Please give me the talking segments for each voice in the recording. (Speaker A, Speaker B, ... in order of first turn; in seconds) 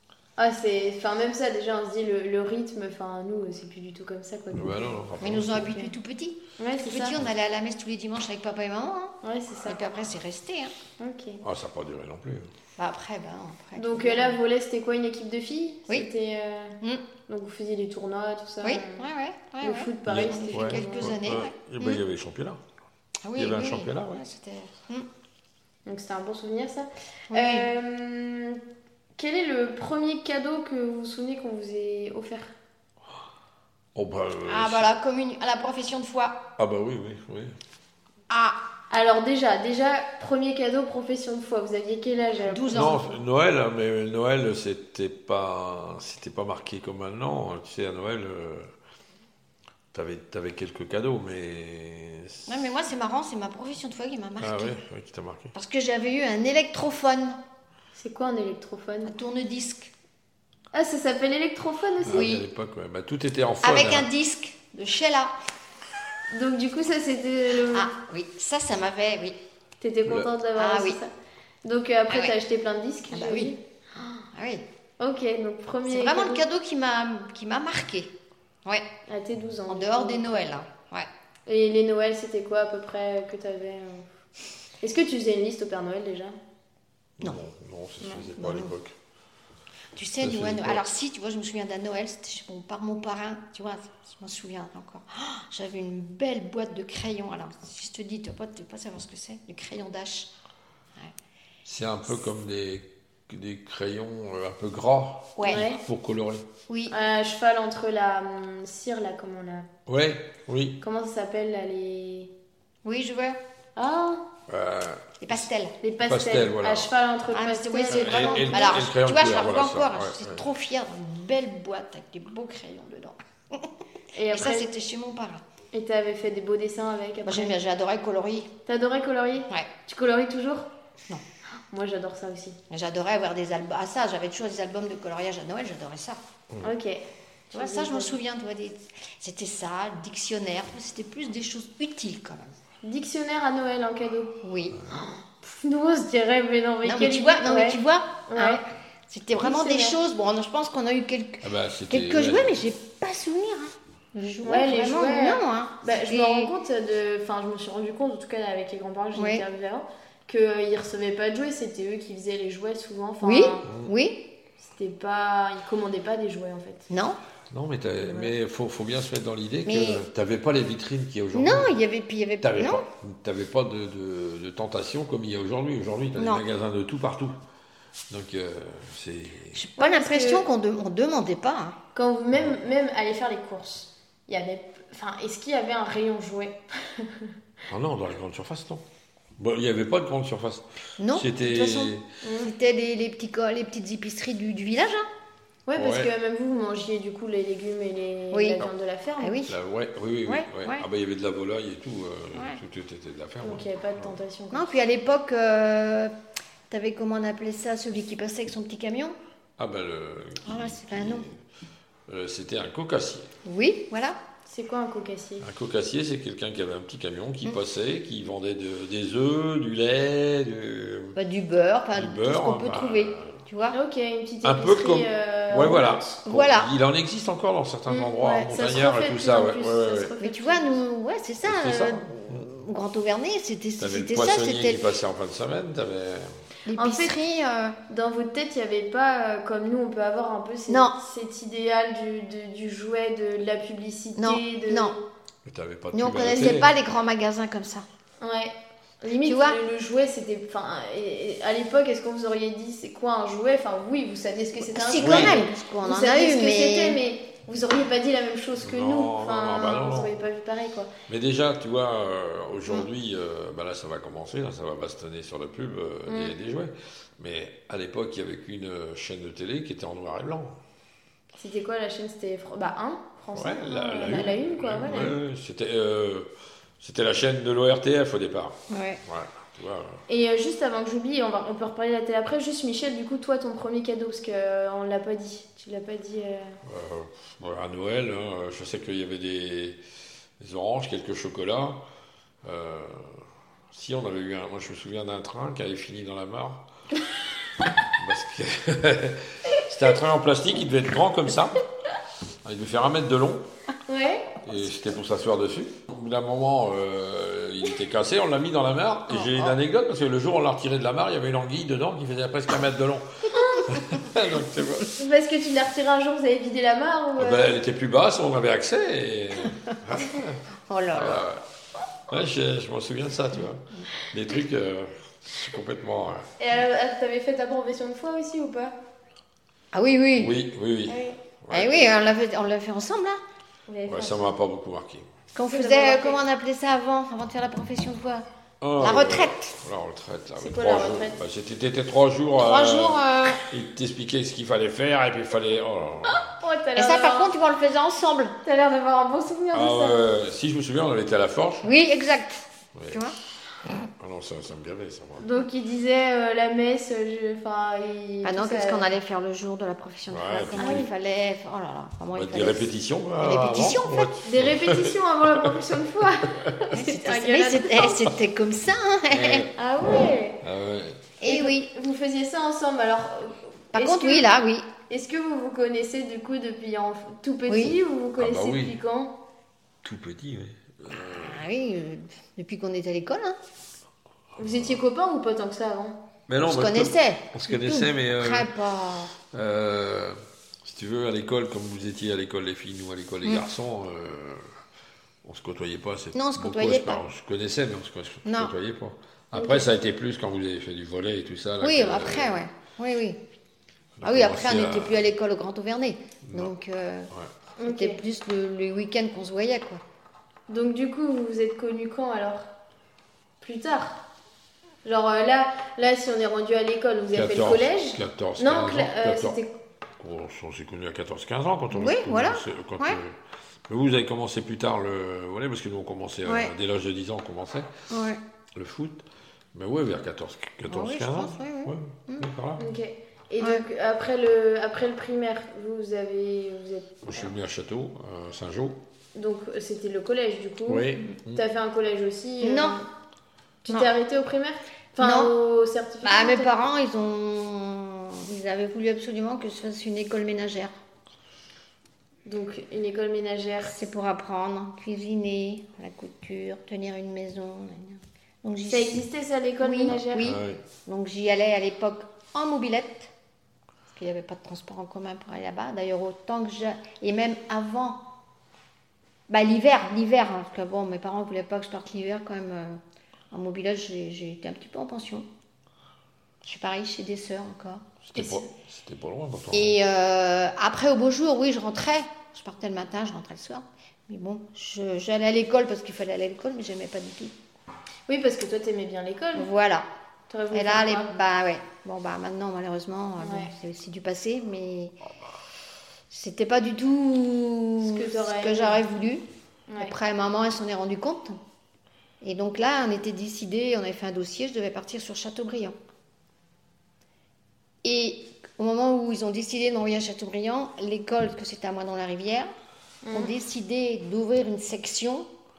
Speaker A: 0.4-5.0, 6.6-7.2, 9.2-9.8, 11.0-11.4, 13.8-16.8, 17.3-19.1, 19.6-21.2, 25.9-28.6, 29.2-32.5, 38.9-43.0, 57.9-59.1, 60.7-62.3, 66.3-67.9, 69.8-71.1, 71.6-73.6, 75.0-76.4, 79.1-80.4, 81.5-84.1, 84.8-86.3, 105.4-105.8, 106.9-109.7, 110.8-112.3, 113.8-114.2, 115.8-118.7, 124.1-124.7, 125.7-127.5, 128.7-130.7, 131.7-132.6, 136.6-138.2, 142.8-144.4, 144.9-148.6, 149.3-150.0, 154.4-163.7, 164.6-166.9, 179.8-180.4, 181.9-187.3, 192.2-192.5, 195.7-199.4, 203.4-204.7, 214.4-215.4, 223.7-226.2, 227.9-230.8, 236.8-237.2, 237.9-245.0, 248.2-260.9, 266.1-266.3, 271.4-275.1, 280.1-286.6, 303.9-304.3, 314.9-317.5, 326.4-328.7, 330.9-331.2, 333.7-334.4, 335.4-336.2, 340.4-341.2, 346.1-347.3, 348.4-350.0, 355.2-358.9, 360.6-360.9, 364.2-368.1, 369.6-370.4, 371.2-374.3, 374.9-379.1, 384.4-386.0, 399.3-399.6, 407.6-408.0, 410.5-412.5, 413.4-414.0, 414.8-419.5, 432.6-437.3, 439.1-442.9, 443.6-446.5, 452.2-453.8, 458.7-460.3, 478.1-478.5, 488.1-489.5, 490.3-491.1, 493.2-493.5, 497.8-498.8, 499.7-499.9, 513.0-513.3
Speaker B: 4.5-5.7, 11.4-12.5, 20.1-22.6, 23.3-24.2, 33.9-34.9, 36.6-37.5, 42.7-48.7, 49.9-52.5, 54.4-55.5, 62.0-64.1, 87.2-88.9, 90.2-90.8, 101.6-106.4, 109.9-110.8, 114.5-115.5, 116.0-116.9, 117.9-120.4, 151.4-152.6, 163.7-163.9, 167.5-171.8, 172.4-177.3, 178.1-179.6, 187.7-188.8, 189.4-192.1, 195.8-196.1, 199.5-204.2, 209.6-211.4, 212.1-213.3, 215.4-221.2, 221.9-223.4, 224.4-230.1, 231.4-232.5, 233.8-236.4, 245.4-246.7, 254.9-255.4, 258.6-260.2, 261.1-270.6, 273.3-280.0, 286.6-289.8, 290.4-291.8, 292.4-296.6, 297.9-301.6, 302.4-303.4, 304.4-315.0, 317.2-321.4, 322.1-326.3, 330.2-331.8, 333.9-335.1, 338.6-346.3, 349.5-351.7, 352.7-353.1, 353.8-355.2, 360.1-360.9, 362.1-365.5, 369.1-369.5, 370.4-371.1, 378.2-378.8, 379.8-381.4, 384.4-384.8, 386.3-388.5, 389.2-394.5, 395.2-402.4, 404.0-405.0, 406.2-406.5, 417.1-419.4, 420.0-423.1, 423.7-427.8, 428.6-429.0, 429.5-432.7, 437.0-438.8, 440.7-441.4, 460.2-460.6, 478.0-479.8
Speaker C: 5.2-10.7, 12.8-14.4, 18.6-22.0, 23.2-25.1, 27.3-27.7, 34.5-36.4, 38.3-38.6, 42.5-43.1, 52.5-54.7, 55.5-57.4, 59.0-59.9, 62.1-62.5, 63.6-65.3, 67.7-69.4, 70.6-71.0, 72.1-72.3, 73.1-73.5, 74.1-74.6, 75.9-78.1, 79.7-81.1, 88.3-88.7, 89.9-100.3, 105.4-105.7, 106.7-106.9, 112.8-113.4, 115.2-115.7, 117.3-123.7, 124.3-125.4, 127.2-128.5, 132.7-136.2, 137.5-142.5, 144.4-144.8, 146.8-156.5, 159.1-159.4, 163.2-164.2, 166.9-167.2, 168.0-168.3, 169.7-170.0, 171.3-172.8, 176.2-176.4, 179.5-181.8, 191.0-195.1, 198.3-198.7, 199.2-199.6, 200.2-200.8, 202.3-202.6, 204.5-206.1, 206.7-209.2, 210.4-211.2, 213.4-214.2, 221.1-223.8, 226.2-226.7, 230.2-234.9, 236.7-237.8, 240.7-240.9, 244.2-244.9, 245.9-247.9, 249.2-249.6, 254.6-257.0, 278.7-279.0, 309.1-309.5, 320.7-321.2, 329.7-330.4, 331.5-333.2, 335.3-338.2, 338.8-339.5, 342.4-343.5, 346.8-348.4, 351.6-353.1, 358.2-364.1, 366.7-369.5, 371.2-371.7, 373.7-374.7, 377.5-377.8, 380.9-383.4, 386.4-389.1, 396.1-397.0, 398.2-398.5, 401.6-403.2, 404.0-407.1, 407.6-409.8, 421.7-423.0, 426.2-426.5, 427.9-428.2, 430.7-432.3, 442.4-442.8, 445.0-445.3, 446.0-450.8, 453.6-459.0, 459.6-463.1, 463.9-468.1, 469.3-475.3, 476.4-477.8, 479.5-487.4, 489.3-489.9, 490.5-494.9, 496.1-499.2, 499.8-501.4, 502.2-505.8, 507.8-512.5, 513.1-515.3